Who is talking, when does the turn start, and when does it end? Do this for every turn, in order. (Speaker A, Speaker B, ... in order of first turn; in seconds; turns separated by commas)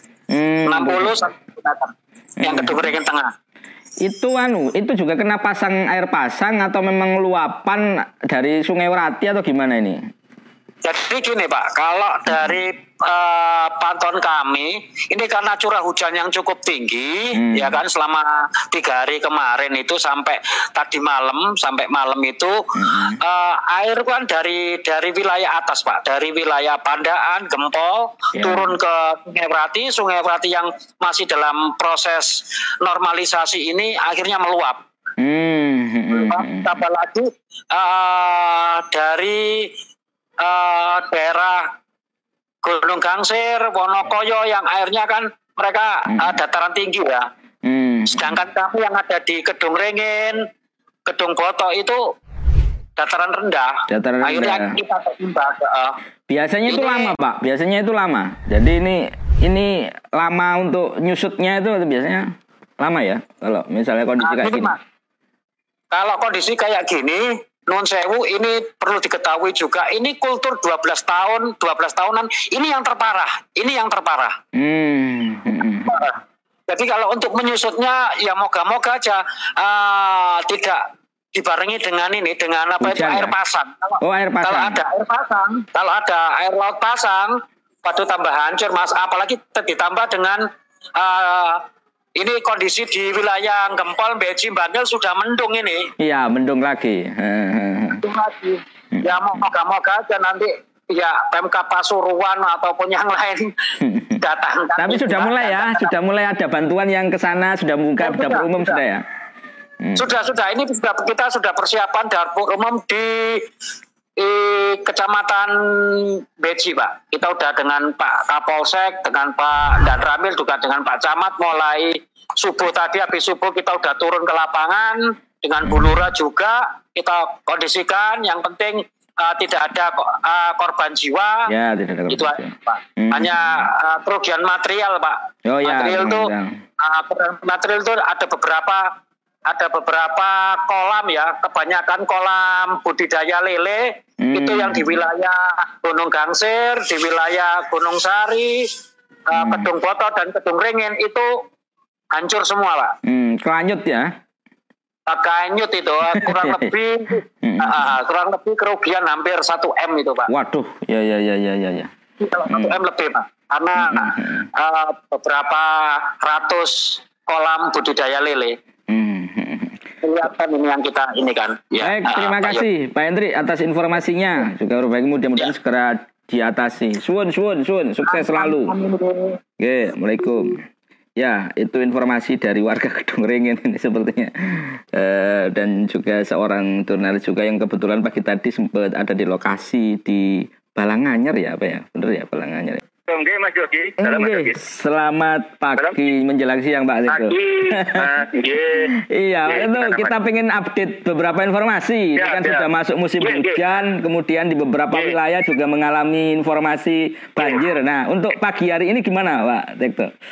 Speaker A: 0.3-1.1, Speaker B: 0.7-3.3, Speaker A: 2.4-2.9, Speaker A: 4.0-10.0, Speaker B: 10.8-22.7, Speaker A: 17.4-17.8, Speaker A: 22.8-23.2, Speaker B: 23.2-34.8, Speaker A: 28.4-28.7, Speaker A: 35.2-36.7, Speaker B: 36.1-39.7, Speaker B: 40.4-41.7, Speaker B: 42.6-47.3, Speaker A: 47.6-48.4, Speaker B: 48.1-50.4, Speaker B: 51.0-52.0, Speaker B: 53.0-56.0, Speaker A: 53.9-54.8, Speaker A: 56.3-62.3, Speaker B: 56.7-57.1, Speaker A: 62.8-64.7, Speaker B: 64.2-64.8, Speaker B: 65.9-74.4, Speaker A: 74.5-75.9, Speaker B: 75.8-76.2, Speaker B: 76.7-80.8, Speaker B: 81.3-90.4, Speaker A: 82.8-83.3, Speaker A: 84.0-84.8, Speaker B: 91.0-91.6, Speaker B: 92.2-95.9, Speaker A: 96.0-98.0, Speaker B: 98.0-103.5, Speaker A: 103.8-104.2, Speaker B: 104.2-105.9, Speaker A: 104.8-109.0, Speaker B: 108.0-108.8, Speaker A: 109.8-110.2, Speaker B: 110.0-113.5, Speaker B: 114.2-131.5, Speaker A: 125.6-125.9, Speaker A: 131.5-133.7, Speaker B: 132.1-138.9, Speaker A: 135.4-136.6, Speaker B: 139.5-148.7, Speaker A: 144.2-145.0, Speaker B: 149.3-151.3, Speaker A: 149.3-149.7, Speaker B: 152.1-152.9, Speaker A: 153.1-154.1, Speaker B: 155.1-160.3, Speaker A: 156.2-156.7, Speaker A: 157.4-157.9, Speaker A: 160.3-161.9, Speaker B: 162.2-168.6, Speaker A: 162.5-162.8, Speaker A: 163.8-164.5, Speaker A: 168.9-169.8, Speaker B: 170.0-172.7, Speaker A: 171.8-178.8, Speaker B: 178.0-179.4, Speaker A: 179.6-180.6, Speaker A: 181.2-192.8, Speaker C: 193.1-194.6, Speaker A: 194.0-198.1, Speaker C: 197.1-198.9, Speaker A: 198.9-210.1, Speaker C: 199.5-200.1, Speaker C: 202.2-202.7, Speaker C: 203.2-203.6